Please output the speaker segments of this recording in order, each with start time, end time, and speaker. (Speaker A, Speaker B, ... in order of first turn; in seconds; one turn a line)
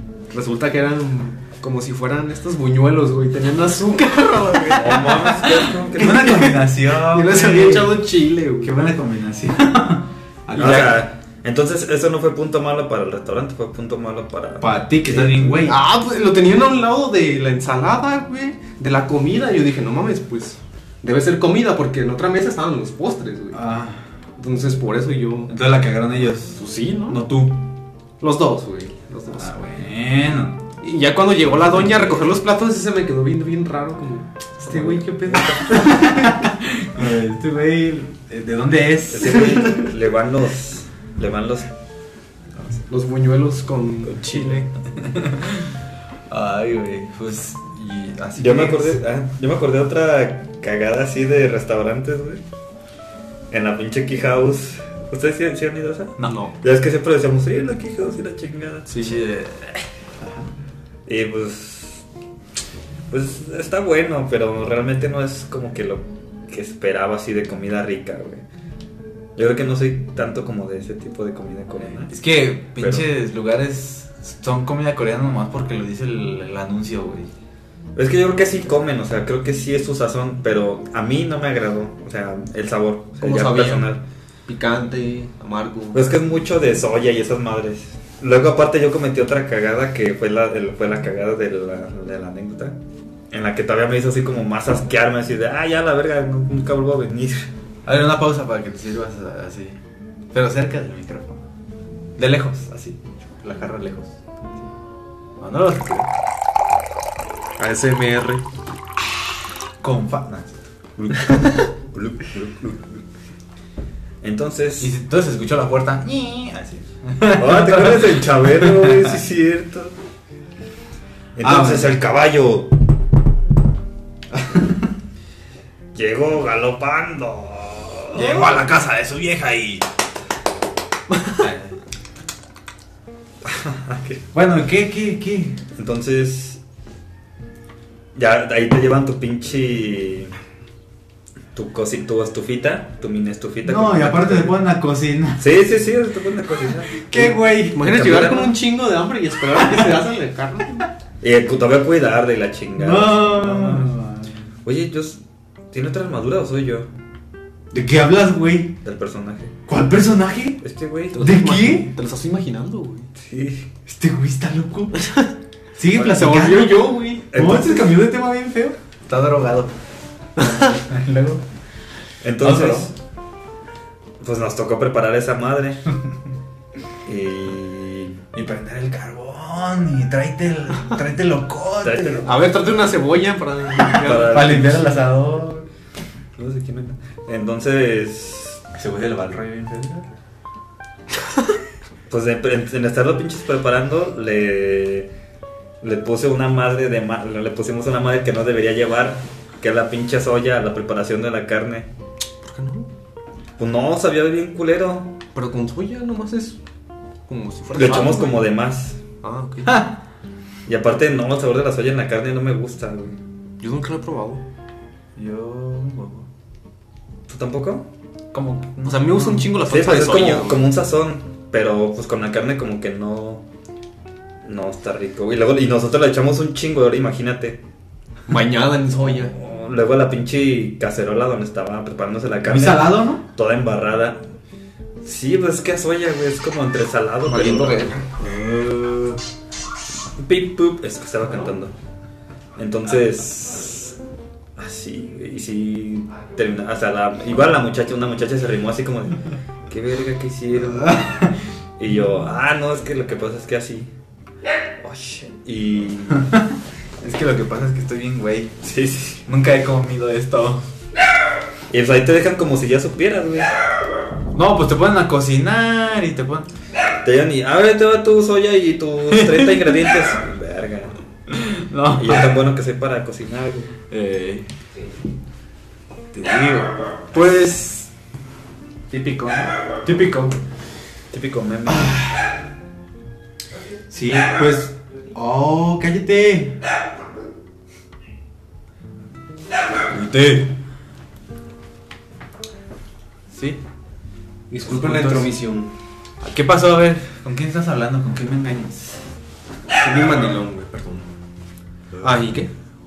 Speaker A: 0.3-5.3
Speaker B: 4.7-6.5
Speaker C: 5.0-8.1
Speaker A: 6.0-8.8
Speaker C: 8.6-10.9
Speaker A: 10.5-11.0
Speaker B: 10.6-15.3
Speaker C: 14.6-15.8
Speaker A: 15.1-23.6
Speaker C: 23.5-24.0
Speaker A: 24.4-25.6
Speaker C: 25.5-27.6
Speaker A: 26.6-27.2
Speaker A: 28.2-29.5
Speaker C: 29.3-30.6
Speaker A: 30.8-36.5
Speaker B: 34.8-35.9
Speaker C: 35.7-39.9
Speaker B: 39.1-41.7
Speaker A: 42.9-44.7
Speaker B: 44.2-44.6
Speaker C: 45.0-45.7
Speaker C: 46.3-49.2
Speaker B: 48.4-52.4
Speaker B: 53.5-58.9
Speaker A: 56.2-56.5
Speaker A: 58.9-59.2
Speaker C: 59.0-60.5
Speaker B: 61.0-62.0
Speaker B: 63.1-68.4
Speaker B: 69.3-72.2
Speaker C: 72.0-77.3
Speaker B: 72.8-73.1
Speaker B: 77.9-84.0
Speaker A: 83.2-84.0
Speaker A: 84.5-86.1
Speaker B: 85.9-92.8
Speaker B: 93.3-97.5
Speaker C: 97.8-99.8
Speaker C: 100.3-101.4
Speaker C: 102.2-104.2
Speaker C: 105.4-106.1
Speaker A: 107.6-108.4
Speaker C: 109.8-111.7
Speaker B: 111.1-112.7
Speaker C: 112.2-112.5
Speaker B: 114.2-114.9
Speaker C: 114.8-119.2
Speaker B: 117.3-119.9
Speaker B: 121.3-122.7
Speaker C: 121.4-122.0
Speaker C: 124.3-124.8
Speaker B: 125.9-128.6
Speaker C: 128.1-129.8
Speaker A: 131.1-131.4
Speaker C: 131.3-131.8
Speaker B: 133.4-134.2
Speaker C: 134.3-135.6
Speaker B: 135.8-136.6
Speaker B: 138.1-140.3
Speaker B: 141.5-144.6
Speaker C: 143.6-145.6
Speaker B: 145.4-147.1
Speaker C: 146.9-147.9
Speaker A: 147.1-150.9
Speaker B: 147.8-148.6
Speaker C: 149.5-150.0
Speaker B: 151.2-153.9
Speaker C: 152.8-154.4
Speaker B: 154.6-155.2
Speaker B: 155.7-156.9
Speaker C: 157.7-158.8
Speaker B: 158.8-159.6
Speaker C: 159.7-160.6
Speaker B: 160.6-161.2
Speaker A: 161.1-163.1
Speaker C: 161.1-161.9
Speaker B: 163.2-163.7
Speaker C: 163.9-165.2
Speaker A: 165.0-165.3
Speaker C: 165.7-169.7
Speaker A: 165.9-167.3
Speaker B: 167.3-168.0
Speaker C: 170.3-171.4
Speaker A: 170.4-170.7
Speaker B: 172.2-172.9
Speaker C: 172.4-172.9
Speaker B: 174.2-175.8
Speaker B: 177.1-178.2
Speaker C: 178.3-182.3
Speaker B: 181.8-182.3
Speaker A: 182.2-184.8
Speaker C: 183.8-185.7
Speaker B: 183.9-184.8
Speaker B: 186.4-188.7
Speaker C: 188.7-190.1
Speaker B: 192.1-195.1
Speaker B: 195.8-201.9
Speaker A: 202.4-202.9
Speaker B: 203.6-205.2
Speaker A: 205.3-206.6
Speaker A: 207.3-208.5
Speaker B: 207.7-209.0
Speaker A: 209.2-209.9
Speaker C: 209.7-210.0
Speaker B: 210.7-213.2
Speaker A: 213.6-214.4
Speaker C: 215.2-216.3
Speaker B: 217.3-217.9
Speaker C: 218.3-219.5
Speaker A: 218.8-220.7
Speaker B: 219.6-223.4
Speaker B: 224.4-227.6
Speaker A: 228.3-229.3
Speaker B: 229.1-234.2
Speaker C: 232.4-233.2
Speaker B: 235.0-238.0
Speaker A: 237.2-238.1
Speaker C: 238.3-239.2
Speaker B: 240.2-241.7
Speaker B: 242.6-243.9
Speaker B: 244.6-253.9
Speaker C: 250.8-251.3
Speaker B: 254.8-256.4
Speaker C: 256.1-256.5
Speaker C: 257.0-258.5
Speaker B: 258.6-259.2
Speaker C: 259.3-260.7
Speaker B: 261.7-263.6
Speaker C: 264.3-266.5
Speaker B: 267.0-271.0
Speaker C: 269.1-269.8
Speaker C: 271.3-272.4
Speaker B: 271.9-273.7
Speaker C: 273.9-274.5
Speaker C: 276.1-277.9
Speaker C: 278.9-280.4
Speaker B: 281.1-282.1
Speaker C: 281.6-282.3
Speaker C: 283.9-286.6
Speaker C: 289.9-290.6
Speaker C: 293.3-293.6
Speaker A: 294.5-295.7
Speaker C: 294.6-295.6
Speaker C: 296.2-299.0
Speaker A: 299.8-301.1
Speaker A: 302.0-302.5